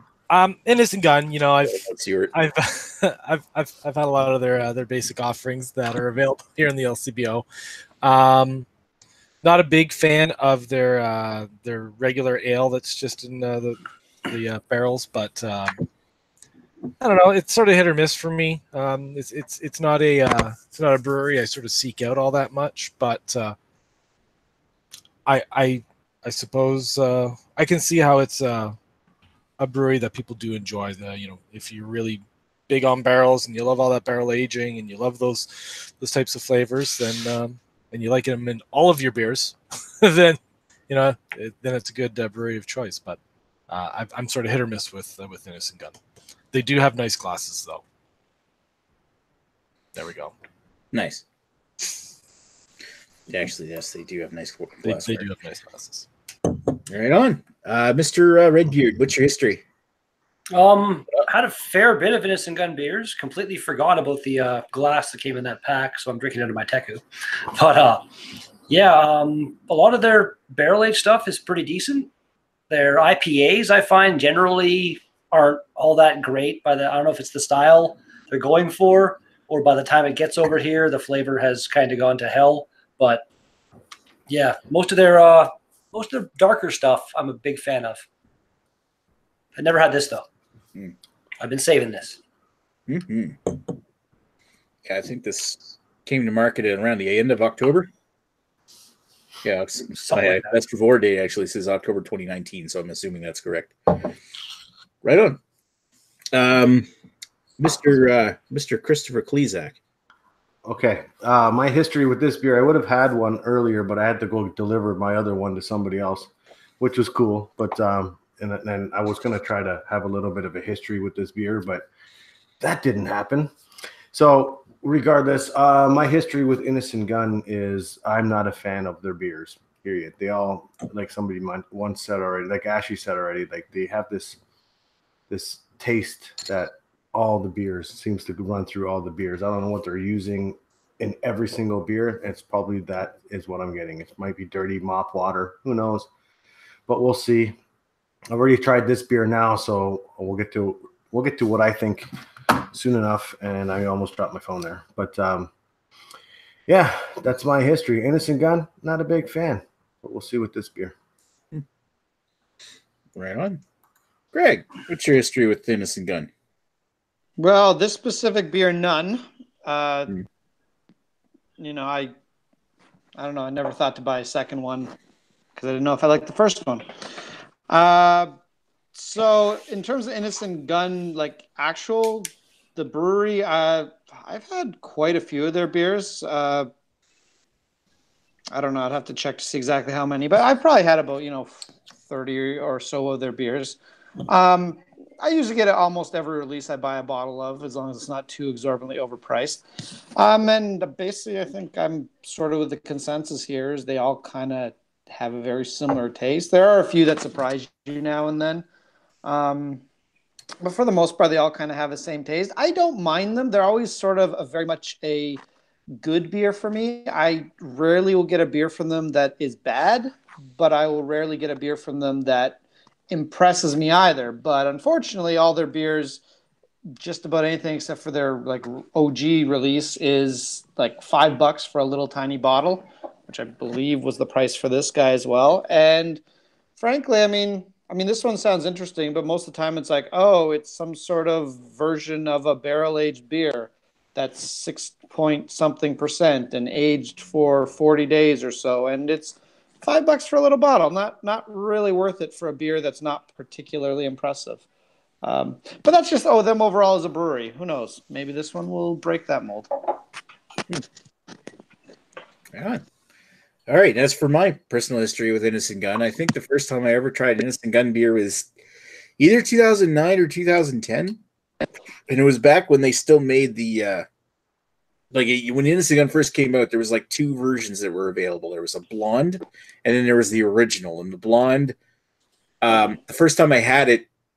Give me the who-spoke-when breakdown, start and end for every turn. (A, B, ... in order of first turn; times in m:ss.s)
0:00.3-0:07.4 A
0:01.6-0:02.3 B
0:08.0-0:08.7 A
0:09.4-0:15.8 A
0:17.0-0:23.6 A
0:25.3-0:28.8 A
0:29.6-0:46.0 A
0:46.5-0:47.8 A
0:50.0-0:50.3 A
0:50.9-0:51.2 B
0:53.3-0:55.3 B
0:54.8-0:56.1 A
0:56.9-0:59.6 B
1:00.5-1:08.1 C
1:08.7-1:12.1 C
1:12.7-1:23.2 C
1:24.3-1:28.1 C
1:29.6-1:30.3 C
1:31.4-1:32.2 C
1:32.9-1:33.6 B
1:34.8-1:37.9 B
1:39.4-1:44.1 B
1:39.9-1:40.6 C
1:45.0-1:45.4 B
1:46.3-1:46.9 B
1:47.6-1:49.8 B
1:50.6-2:01.9 D
2:02.6-2:03.5 D
2:04.1-2:14.4 D
2:15.3-2:26.1 D
2:26.9-2:27.6 D
2:28.3-2:35.5 D
2:36.7-2:41.0 D
2:43.2-2:43.6 B
2:44.3-2:46.3 B
2:47.4-2:50.2 E
2:51.6-2:52.1 E
2:53.2-2:54.9 E
2:55.6-2:56.9 E
2:57.7-2:58.3 E
2:59.0-3:06.7 E
3:08.5-3:19.6 E
3:20.2-3:28.7 E
3:29.2-3:29.8 E
3:30.6-3:35.4 E
3:36.0-3:46.2 E
3:47.0-3:56.2 E
3:56.8-4:14.6 E
4:15.2-4:20.0 E
4:22.5-4:22.8 B
4:23.7-4:28.5 B
4:29.2-4:31.2 B
4:32.1-4:34.0 B
4:35.1-4:41.8 B
4:42.6-4:44.1 B